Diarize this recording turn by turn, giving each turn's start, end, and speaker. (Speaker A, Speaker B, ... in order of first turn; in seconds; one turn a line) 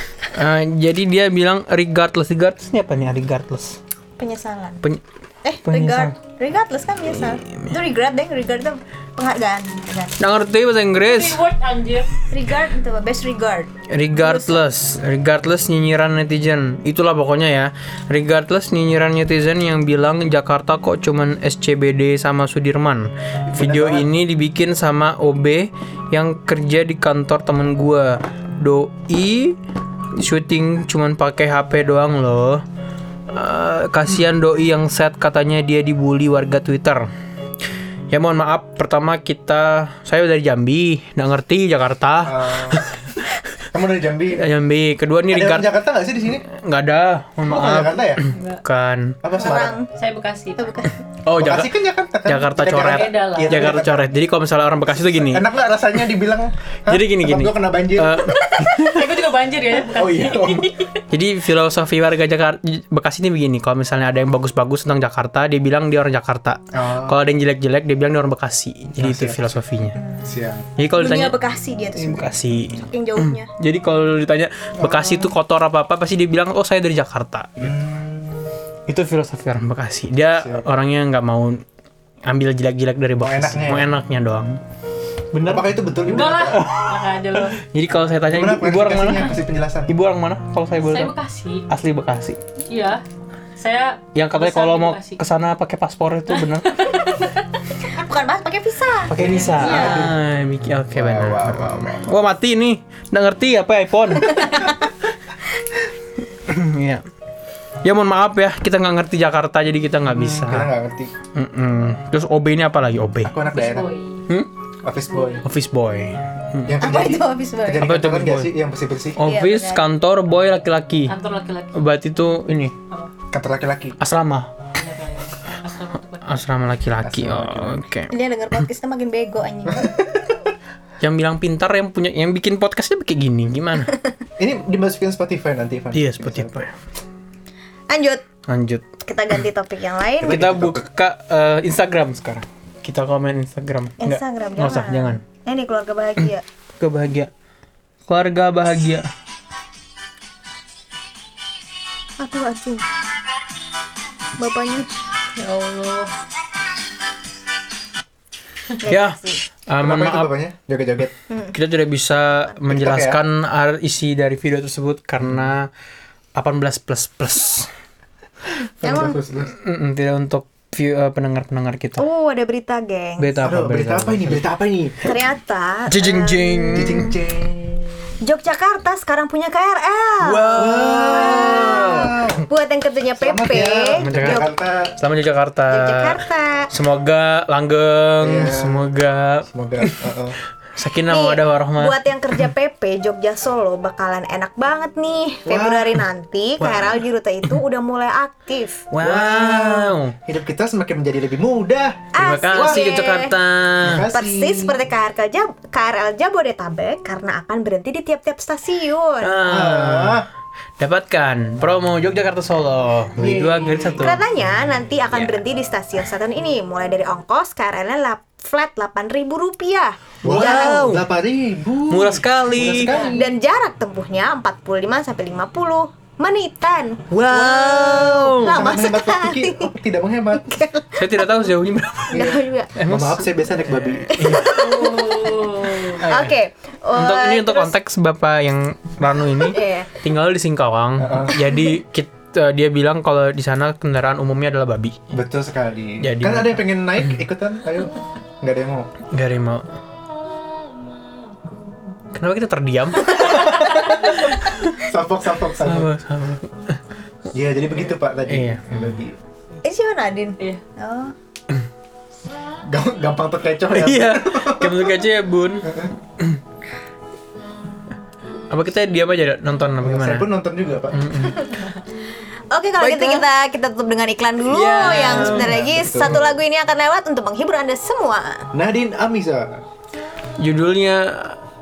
Speaker A: 0.2-3.8
Speaker B: 4.2-4.8
Speaker B: 5.4-10.2
Speaker A: 5.6-6.1
Speaker A: 7.1-7.7
Speaker A: 10.2-11.4
Speaker C: 11.0-12.1
Speaker B: 12.3-14.6
Speaker A: 13.9-29.6
Speaker D: 23.5-24.1
Speaker A: 30.1-32.6
Speaker A: 33.3-37.1
Speaker A: 38.1-43.4
Speaker D: 42.2-42.8
Speaker D: 43.7-44.5
Speaker A: 44.3-45.7
Speaker D: 45.3-46.4
Speaker A: 46.4-49.2
Speaker D: 47.4-48.2
Speaker C: 48.3-48.6
Speaker D: 49.2-49.8
Speaker B: 49.3-49.9
Speaker C: 49.9-50.9
Speaker B: 50.6-51.0
Speaker A: 51.2-51.7
Speaker D: 51.3-54.2
Speaker A: 52.2-55.5
Speaker C: 52.7-53.8
Speaker D: 54.9-58.5
Speaker A: 56.9-59.1
Speaker C: 58.7-61.0
Speaker D: 59.9-60.7
Speaker A: 61.1-70.0
Speaker D: 66.7-67.2
Speaker D: 68.9-69.6
Speaker D: 70.2-70.7
Speaker A: 70.8-71.4
Speaker B: 70.9-73.5
Speaker A: 72.0-77.7
Speaker D: 74.8-75.3
Speaker D: 77.6-78.5
Speaker A: 78.9-81.6
Speaker D: 80.4-80.7
Speaker A: 82.2-84.6
Speaker D: 83.2-83.9
Speaker A: 85.3-91.1
Speaker D: 85.5-86.6
Speaker C: 86.1-87.6
Speaker D: 88.3-89.9
Speaker C: 90.8-91.7
Speaker A: 91.7-92.4
Speaker C: 92.7-93.0
Speaker C: 93.5-95.2
Speaker A: 94.1-97.0
Speaker C: 96.3-97.4
Speaker B: 97.8-100.1
Speaker A: 99.1-104.7
Speaker C: 99.1-100.1
Speaker D: 99.3-100.2
Speaker D: 100.9-102.2
Speaker B: 104.3-104.7
Speaker A: 106.5-107.0
Speaker A: 107.8-110.7
Speaker D: 110.1-111.1
Speaker A: 111.3-113.4
Speaker D: 113.2-113.9
Speaker C: 113.4-114.2
Speaker D: 114.8-115.4
Speaker A: 115.4-116.8
Speaker D: 116.6-119.3
Speaker B: 116.8-117.9
Speaker A: 117.8-118.5
Speaker A: 119.2-121.2
Speaker B: 119.2-119.8
Speaker C: 121.1-121.8
Speaker A: 121.7-122.7
Speaker D: 123.3-124.0
Speaker A: 124.0-124.5
Speaker C: 124.7-126.5
Speaker A: 126.2-128.1
Speaker D: 127.0-127.9
Speaker B: 128.1-130.0
Speaker D: 129.7-130.0
Speaker A: 131.0-133.9
Speaker D: 134.4-136.7
Speaker A: 135.9-136.7
Speaker B: 137.9-138.2
Speaker A: 138.5-138.9
Speaker B: 139.0-140.7
Speaker A: 140.2-145.2
Speaker D: 140.3-140.8
Speaker B: 144.0-146.4
Speaker A: 146.8-147.3
Speaker A: 148.1-149.1
Speaker B: 152.2-152.8
Speaker B: 154.4-154.9
Speaker C: 155.3-156.1
Speaker B: 158.8-159.4
Speaker A: 158.8-160.3
Speaker D: 159.8-161.1
Speaker B: 161.3-161.5
Speaker A: 161.5-165.7
Speaker D: 162.7-163.2
Speaker D: 165.2-165.5
Speaker A: 166.3-167.7
Speaker D: 168.8-169.5
Speaker B: 168.8-169.2
Speaker A: 169.5-172.0
Speaker B: 172.0-173.3
Speaker A: 173.2-174.4
Speaker D: 173.4-175.1
Speaker B: 175.0-177.1
Speaker A: 175.9-177.1
Speaker D: 176.7-177.9
Speaker B: 178.2-184.5
Speaker A: 180.2-182.3
Speaker D: 180.5-182.5
Speaker D: 183.2-185.0
Speaker A: 183.9-190.0
Speaker B: 185.7-186.7
Speaker D: 188.2-188.9
Speaker D: 189.4-190.4
Speaker A: 190.7-192.4
Speaker B: 191.1-198.8
Speaker D: 195.4-195.9
Speaker A: 196.6-197.5
Speaker A: 198.9-200.1
Speaker D: 199.0-202.9
Speaker B: 202.1-203.3
Speaker A: 202.2-204.1
Speaker D: 203.8-204.8
Speaker B: 204.1-209.4
Speaker A: 209.2-210.2
Speaker D: 209.4-210.3
Speaker A: 210.8-214.2
Speaker D: 213.2-214.0
Speaker B: 213.9-220.9
Speaker A: 215.1-215.4
Speaker D: 220.2-223.2
Speaker A: 220.2-221.1
Speaker A: 221.9-222.9
Speaker C: 222.9-223.2
Speaker B: 222.9-229.7
Speaker A: 227.1-228.6
Speaker D: 228.4-230.6
Speaker B: 230.3-231.5
Speaker A: 230.9-234.8
Speaker B: 232.1-232.7
Speaker D: 232.1-234.4
Speaker B: 234.2-237.7
Speaker C: 234.4-236.0
Speaker A: 235.9-236.3
Speaker A: 236.9-245.0
Speaker B: 239.3-239.9
Speaker D: 241.0-241.5
Speaker D: 245.1-248.9
Speaker A: 246.0-246.6
Speaker A: 249.1-249.7
Speaker A: 252.1-254.8
Speaker D: 253.2-255.9
Speaker A: 255.6-256.8
Speaker D: 257.3-259.2
Speaker A: 258.2-258.7
Speaker B: 259.6-261.1
Speaker D: 262.6-264.9
Speaker A: 263.7-266.4
Speaker D: 265.6-265.9
Speaker A: 268.5-270.3
Speaker D: 269.8-271.2
Speaker A: 270.9-271.5
Speaker B: 272.5-278.5
Speaker A: 272.8-273.2
Speaker A: 274.4-276.3
Speaker D: 274.9-276.2
Speaker D: 278.5-279.6
Speaker A: 280.4-281.4